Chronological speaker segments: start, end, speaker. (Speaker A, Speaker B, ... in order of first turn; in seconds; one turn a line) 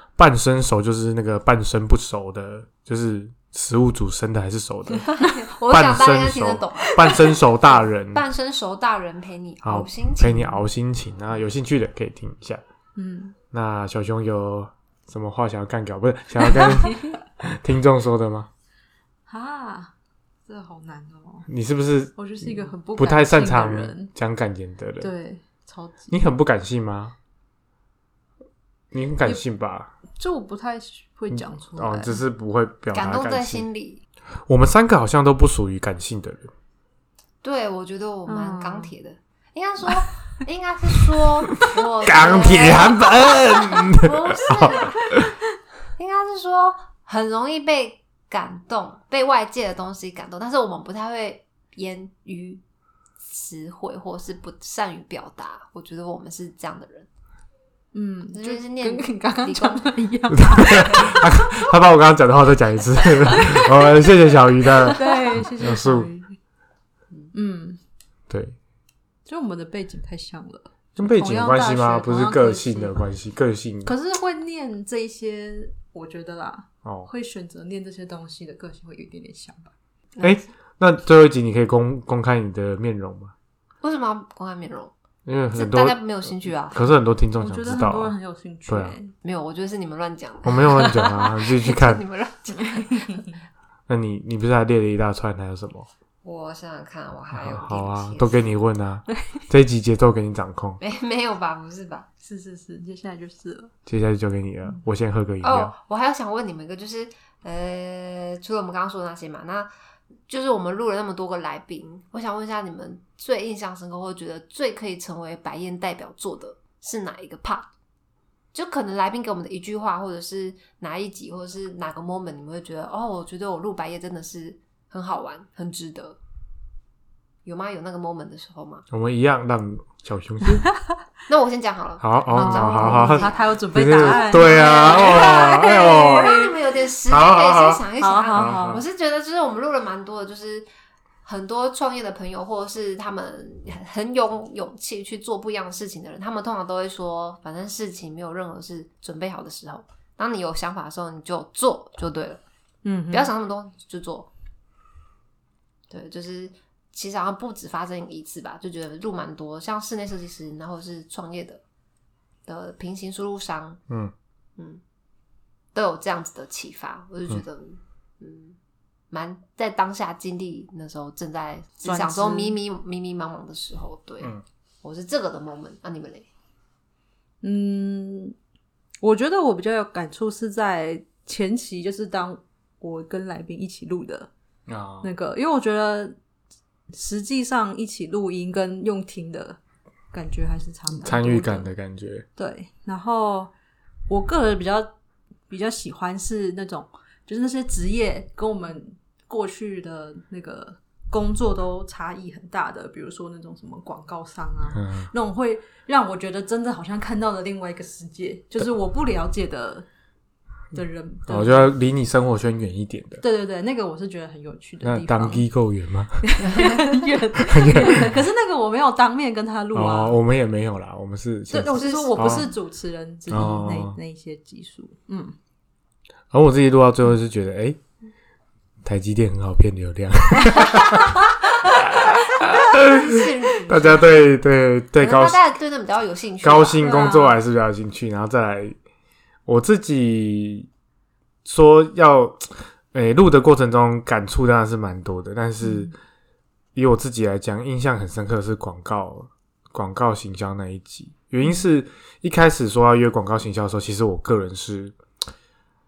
Speaker A: 0.1-5.1
Speaker B: 4.9-10.6
Speaker A: 5.7-8.2
Speaker A: 9.6-12.6
Speaker C: 12.9-13.3
Speaker A: 13.5-18.5
Speaker C: 19.3-19.9
Speaker C: 20.5-21.5
Speaker A: 21.5-25.1
Speaker C: 22.1-24.1
Speaker C: 25.0-26.2
Speaker A: 26.1-27.1
Speaker A: 28.9-29.9
Speaker C: 30.2-32.2
Speaker A: 31.3-33.6
Speaker B: 32.9-34.0
Speaker A: 34.5-36.5
Speaker B: 37.4-45.2
Speaker C: 38.3-38.9
Speaker A: 41.6-45.3
Speaker B: 46.0-52.6
Speaker B: 53.2-57.1
Speaker C: 57.9-61.6
Speaker B: 58.3-61.1
Speaker A: 60.4-66.1
Speaker C: 63.3-63.7
Speaker C: 64.8-66.3
Speaker C: 67.3-67.8
Speaker A: 68.3-68.6
Speaker C: 69.2-73.0
Speaker A: 71.0-73.9
Speaker C: 73.8-79.7
Speaker A: 76.8-77.1
Speaker A: 80.2-83.3
Speaker B: 83.8-84.9
Speaker A: 85.2-88.1
Speaker B: 85.5-86.8
Speaker C: 87.4-89.1
Speaker A: 88.7-89.0
Speaker B: 89.2-93.2
Speaker A: 90.4-92.0
Speaker C: 92.5-93.3
Speaker A: 93.9-95.9
Speaker B: 96.2-98.4
Speaker A: 97.3-100.8
Speaker B: 100.8-102.1
Speaker C: 102.2-103.7
Speaker A: 103.9-105.7
Speaker B: 105.4-109.7
Speaker B: 110.3-117.7
Speaker B: 118.5-126.2
Speaker B: 127.4-128.8
Speaker A: 128.9-130.7
Speaker B: 131.3-140.7
Speaker A: 132.0-136.4
Speaker C: 132.3-136.5
Speaker A: 137.1-138.8
Speaker C: 138.0-138.8
Speaker B: 141.2-152.4
Speaker C: 152.8-153.3
Speaker B: 153.1-154.3
Speaker B: 155.9-161.6
Speaker B: 162.4-163.8
Speaker B: 164.6-164.8
Speaker B: 165.7-168.6
Speaker B: 169.1-176.3
Speaker C: 171.8-172.6
Speaker C: 177.4-178.3
Speaker C: 179.0-184.3
Speaker A: 184.7-185.1
Speaker C: 185.0-186.2
Speaker C: 186.9-189.6
Speaker C: 190.1-191.7
Speaker A: 191.0-192.2
Speaker C: 192.3-193.5
Speaker C: 194.1-194.9
Speaker C: 195.5-209.9
Speaker A: 204.7-205.1
Speaker C: 210.7-211.7
Speaker A: 211.3-213.2
Speaker C: 213.2-215.4
Speaker A: 214.8-216.3
Speaker C: 216.2-220.2
Speaker A: 217.4-218.2
Speaker A: 219.7-222.5
Speaker C: 221.5-225.3
Speaker B: 221.7-222.5
Speaker A: 223.3-224.0
Speaker A: 226.3-227.8
Speaker A: 228.8-235.4
Speaker B: 232.7-234.2
Speaker B: 235.0-237.1
Speaker A: 236.4-238.7
Speaker C: 236.8-237.4
Speaker A: 239.4-240.7
Speaker A: 241.4-245.9
Speaker C: 245.6-245.9
Speaker A: 246.7-254.9